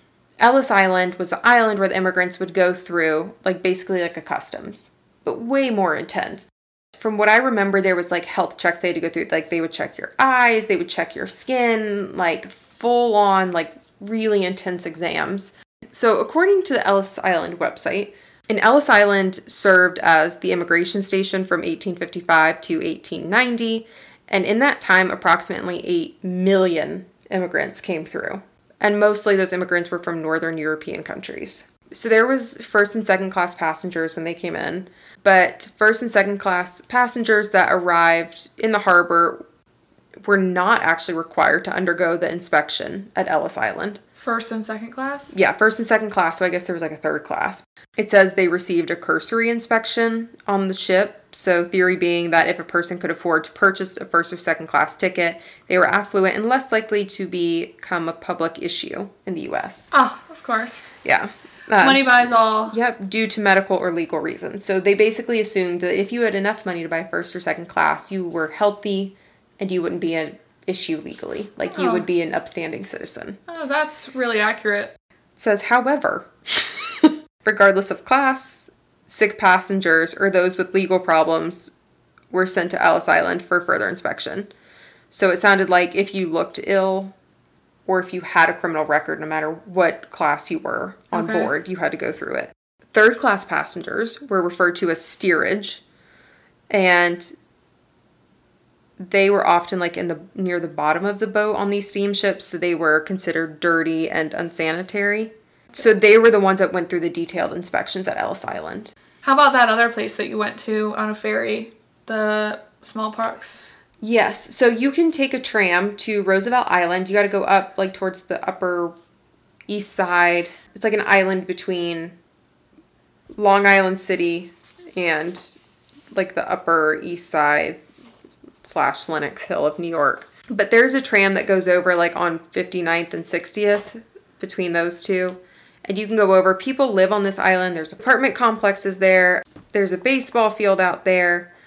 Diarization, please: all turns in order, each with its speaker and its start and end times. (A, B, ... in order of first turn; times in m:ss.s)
0:00.4-0:39.4 A
0:40.2-0:44.0 A
0:44.2-0:45.3 B
0:45.3-0:59.9 A
0:59.9-1:00.9 B
1:01.0-1:13.4 A
1:01.8-1:02.8 B
1:11.7-1:12.1 B
1:13.5-1:14.9 B
1:15.4-1:21.7 A
1:22.3-1:24.5 A
1:25.1-1:27.1 A
1:27.9-1:35.8 A
1:31.1-1:31.5 B
1:36.7-1:37.3 A
1:39.0-1:48.9 A
1:49.2-1:53.7 B
1:54.0-1:58.9 A
1:59.7-2:02.2 A
2:03.4-2:05.6 A
2:06.1-2:07.8 A
2:08.6-2:21.5 A